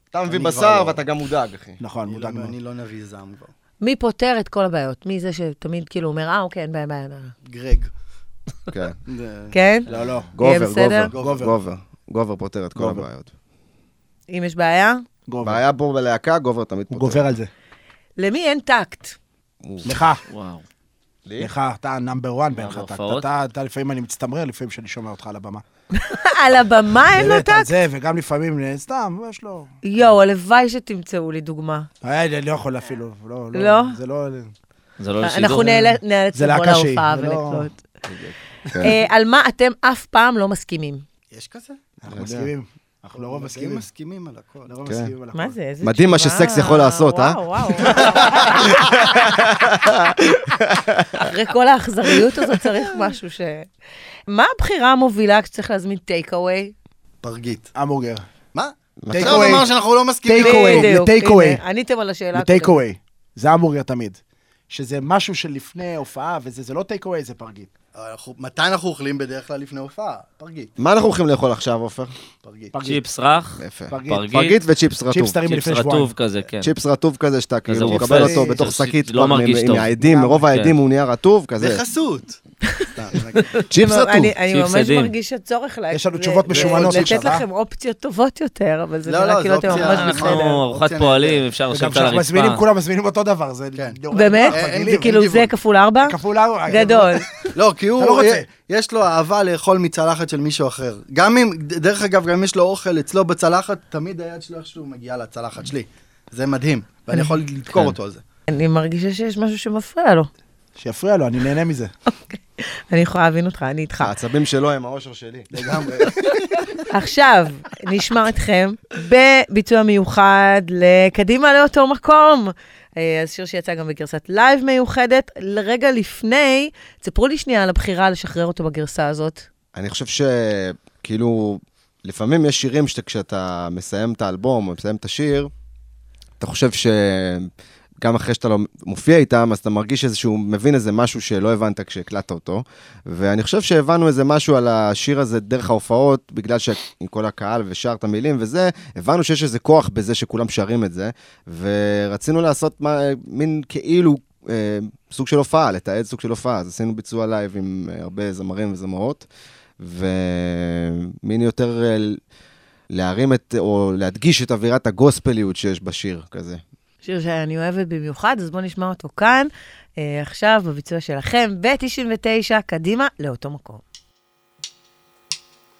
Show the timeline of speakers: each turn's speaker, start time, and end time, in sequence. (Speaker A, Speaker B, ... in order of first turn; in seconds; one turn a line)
Speaker A: 0.1-1.8
Speaker B: 0.3-1.0
Speaker C: 1.8-2.5
Speaker B: 2.0-3.5
Speaker D: 3.8-7.3
Speaker B: 7.5-7.9
Speaker A: 8.7-9.0
Speaker B: 9.1-9.5
Speaker D: 9.5-9.9
Speaker C: 9.9-10.3
Speaker A: 10.3-13.3
Speaker D: 10.4-11.1
Speaker B: 11.1-11.5
Speaker C: 11.2-11.5
Speaker C: 12.8-13.1
Speaker D: 14.3-15.1
Speaker C: 15.3-15.6
Speaker A: 15.4-17.3
Speaker C: 16.9-17.5
Speaker D: 18.2-19.2
Speaker A: 19.6-20.0
Speaker C: 19.8-20.2
Speaker E: 20.3-20.6
Speaker A: 21.3-21.5
Speaker C: 21.4-25.6
Speaker E: 22.5-23.3
Speaker D: 25.9-27.7
Speaker C: 27.1-29.7
Speaker D: 29.8-31.9
Speaker C: 32.0-34.5
Speaker D: 33.5-34.0
Speaker E: 35.0-35.7
Speaker D: 35.2-37.8
Speaker C: 35.5-37.7
Speaker A: 38.0-38.9
Speaker D: 38.8-41.0
Speaker B: 41.3-41.9
Speaker C: 42.0-43.8
Speaker A: 42.1-42.5
Speaker B: 43.1-44.7
Speaker C: 44.7-45.6
Speaker A: 44.9-45.1
Speaker D: 45.3-48.5
Speaker A: 45.8-51.3
Speaker D: 51.1-53.7
Speaker D: 54.3-56.7
Speaker B: 57.2-57.7
Speaker C: 57.7-58.2
Speaker B: 58.5-60.9
Speaker A: 59.0-59.7
Speaker C: 59.1-59.7
Speaker C: 60.2-61.6
Speaker D: 60.4-62.8
Speaker C: 62.3-64.2
Speaker C: 64.7-67.7
Speaker B: 67.9-70.7
Speaker A: 70.8-72.1
Speaker B: 72.4-72.7
Speaker C: 72.7-73.0
Speaker E: 72.8-74.6
Speaker A: 73.6-75.4
Speaker C: 73.9-74.3
Speaker C: 75.1-76.1
Speaker E: 75.5-76.7
Speaker A: 76.6-81.8
Speaker E: 77.7-80.0
Speaker C: 77.8-78.6
Speaker C: 80.0-80.4
Speaker B: 81.6-82.4
Speaker B: 82.9-83.6
Speaker A: 83.7-84.3
Speaker D: 83.8-90.6
Speaker E: 84.5-85.1
Speaker C: 85.9-87.4
Speaker B: 86.5-87.2
Speaker B: 89.0-91.4
Speaker E: 89.7-92.6
Speaker C: 91.7-95.2
Speaker B: 93.7-95.5
Speaker D: 94.1-97.2
Speaker C: 96.0-98.5
Speaker B: 97.5-108.2
Speaker A: 107.7-108.0
Speaker D: 108.5-110.3
Speaker C: 110.8-111.9
Speaker D: 112.3-114.1
Speaker A: 114.0-115.5
Speaker B: 115.5-116.8
Speaker D: 116.9-129.4
Speaker A: 129.7-135.5
Speaker A: 136.4-137.5
Speaker A: 138.0-159.3
Speaker A: 159.8-162.2
Speaker A: 162.9-166.6
Speaker D: 167.0-173.8